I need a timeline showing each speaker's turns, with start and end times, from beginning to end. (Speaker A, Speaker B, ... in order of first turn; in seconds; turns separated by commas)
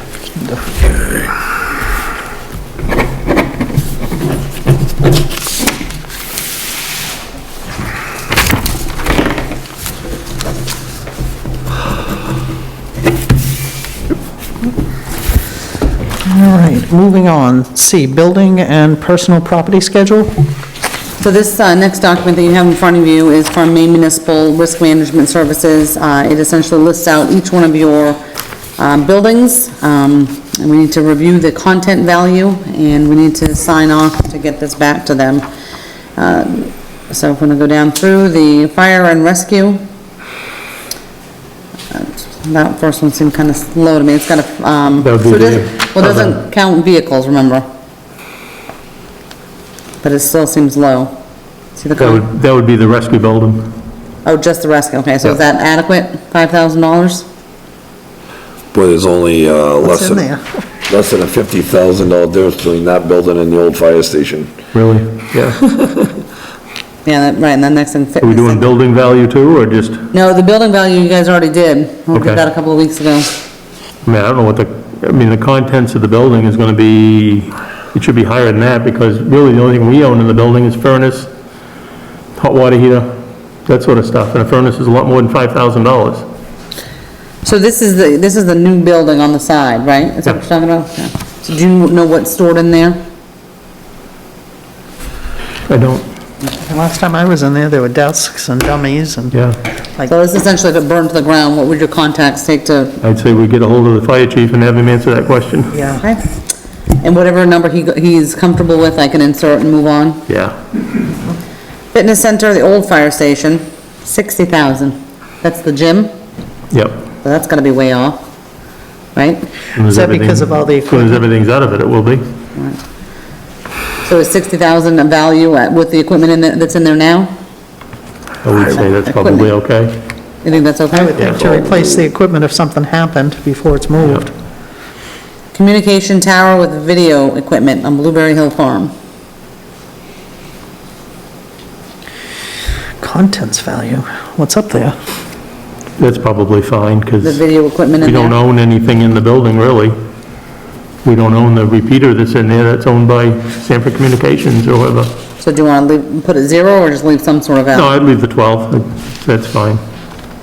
Speaker A: 0.3-1.0, Speaker A: 16.3-20.3, Speaker B: 21.2-28.2, Speaker B: 28.8-35.5, Speaker B: 36.2-39.8, Speaker B: 41.9-47.6, Speaker C: 45.0-46.4, Speaker B: 50.0-51.2, Speaker B: 51.8-52.2, Speaker C: 52.0-53.7, Speaker B: 54.2-57.3, Speaker D: 58.7-60.3, Speaker A: 59.9-60.4, Speaker D: 60.9-64.5, Speaker C: 64.7-65.6, Speaker B: 67.0-68.7, Speaker C: 68.2-70.0, Speaker B: 70.1-73.3, Speaker C: 72.1-72.4, Speaker C: 74.0-81.3, Speaker C: 82.4-83.1, Speaker C: 83.7-86.2, Speaker B: 87.4-93.0, Speaker C: 95.7-96.1, Speaker A: 96.7-99.4, Speaker B: 100.1-103.0, Speaker C: 103.0-105.8, Speaker A: 105.7-106.0, Speaker B: 106.0-106.3, Speaker B: 107.0-110.2, Speaker C: 110.3-110.6, Speaker B: 111.9-116.1, Speaker C: 116.7-117.0, Speaker B: 117.2-118.2, Speaker B: 119.2-119.5, Speaker C: 119.8-122.2, Speaker A: 119.8-121.3, Speaker B: 124.0-127.3, Speaker C: 128.4-130.0, Speaker B: 128.7-129.5, Speaker B: 130.4-131.4, Speaker A: 130.9-134.3, Speaker C: 131.2-131.4, Speaker D: 131.4-132.1, Speaker B: 135.5-138.9, Speaker A: 143.0-145.0, Speaker C: 146.0-147.4, Speaker B: 147.2-148.3, Speaker C: 148.0-150.0, Speaker C: 151.0-155.1, Speaker B: 155.4-157.9, Speaker C: 157.7-159.8